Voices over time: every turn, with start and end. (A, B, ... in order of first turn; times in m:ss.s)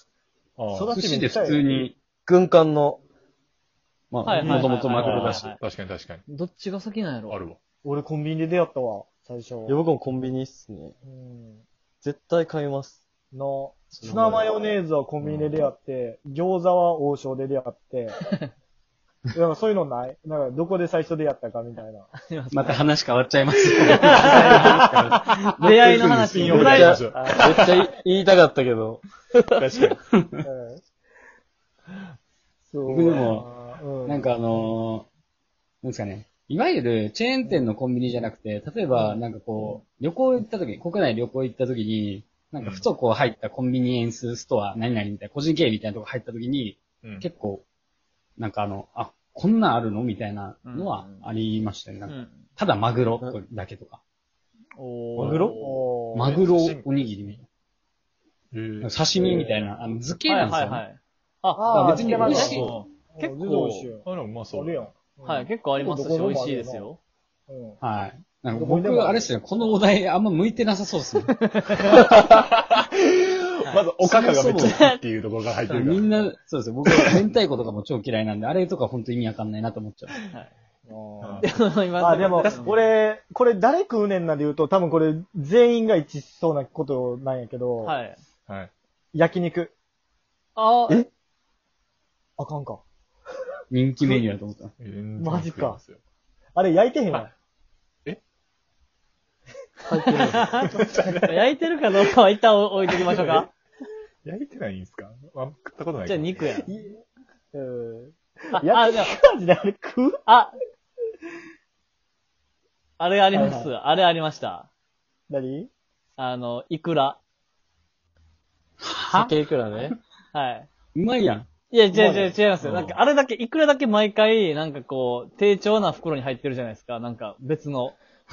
0:00.6-0:01.0 A
0:00.7-0:01.7 B
0:00.9-0:02.0 C
0:02.3-0:03.0 D
0:04.1-0:05.5 C
0:04.2-0:05.6 E
0:04.3-0:05.4 B
0:04.9-0:06.2 A
0:06.3-0:07.4 E
0:07.3-0:07.6 A
0:07.8-0:09.8 B
0:09.7-0:10.9 D
0:11.0-0:11.6 B
0:12.0-0:13.0 D
0:13.3-0:18.4 B
0:13.9-0:14.5 D
0:15.2-0:15.6 A
0:19.3-0:22.1 B
0:22.3-0:22.9 E
0:22.5-0:26.9 C
0:23.9-0:24.7 E
0:24.2-0:24.5 B
0:25.6-0:27.0 E
0:26.3-0:27.8 A
0:26.5-0:29.9 D
0:27.1-0:27.5 B
0:29.6-0:30.0 A
0:30.4-0:30.8 B
0:32.7-0:34.3 B
0:32.9-0:33.5 C
0:34.1-0:35.1 C
0:35.8-0:47.6 C
0:38.9-0:39.8 B
0:42.6-0:42.9 A
0:48.4-0:54.0 C
0:50.6-0:51.2 E
0:52.1-0:52.5 E
0:54.8-0:55.8 E
0:55.2-0:55.7 D
0:55.5-0:56.3 B
0:56.1-0:57.4 C
0:56.2-0:56.9 A
0:58.5-0:58.9 A
0:58.8-1:00.8 C
1:00.3-1:02.6 E
1:01.6-1:06.9 B
1:01.7-1:02.8 C
1:02.5-1:02.9 A
1:03.2-1:03.9 E
1:04.0-1:05.0 A
1:05.2-1:07.0 E
1:07.5-1:07.8 B
1:07.8-1:11.3 C
1:08.5-1:09.3 B
1:11.4-1:12.0 E
1:11.8-1:16.3 A
1:14.0-1:14.8 C
1:14.6-1:15.0 E
1:15.7-1:20.1 C
1:20.9-1:28.0 B
1:21.2-1:21.5 A
1:21.4-1:22.8 E
1:22.4-1:22.7 A
1:27.8-1:28.2 E
1:29.1-1:29.7 B
1:30.6-1:31.1 E
1:32.4-1:32.8 B
1:33.7-1:34.7 C
1:34.8-1:36.0 A
1:35.2-1:35.8 B
1:36.6-1:37.3 B
1:39.9-1:40.6 D
1:40.3-1:43.5 E
1:40.6-1:41.5 A
1:42.9-1:43.5 A
1:44.2-1:46.6 A
1:46.0-1:46.7 E
1:46.7-1:47.0 B
1:47.5-1:50.2 B
1:48.6-1:49.1 E
1:50.3-1:50.6 E
1:53.0-1:54.7 E
1:53.3-1:53.7 B
1:55.3-1:55.7 B
1:56.2-1:57.2 E
1:58.8-2:00.0 C
1:59.1-2:00.0 D
2:00.3-2:00.7 E
2:01.0-2:01.5 C
2:01.7-2:08.0 E
2:01.9-2:02.4 B
2:02.6-2:03.0 A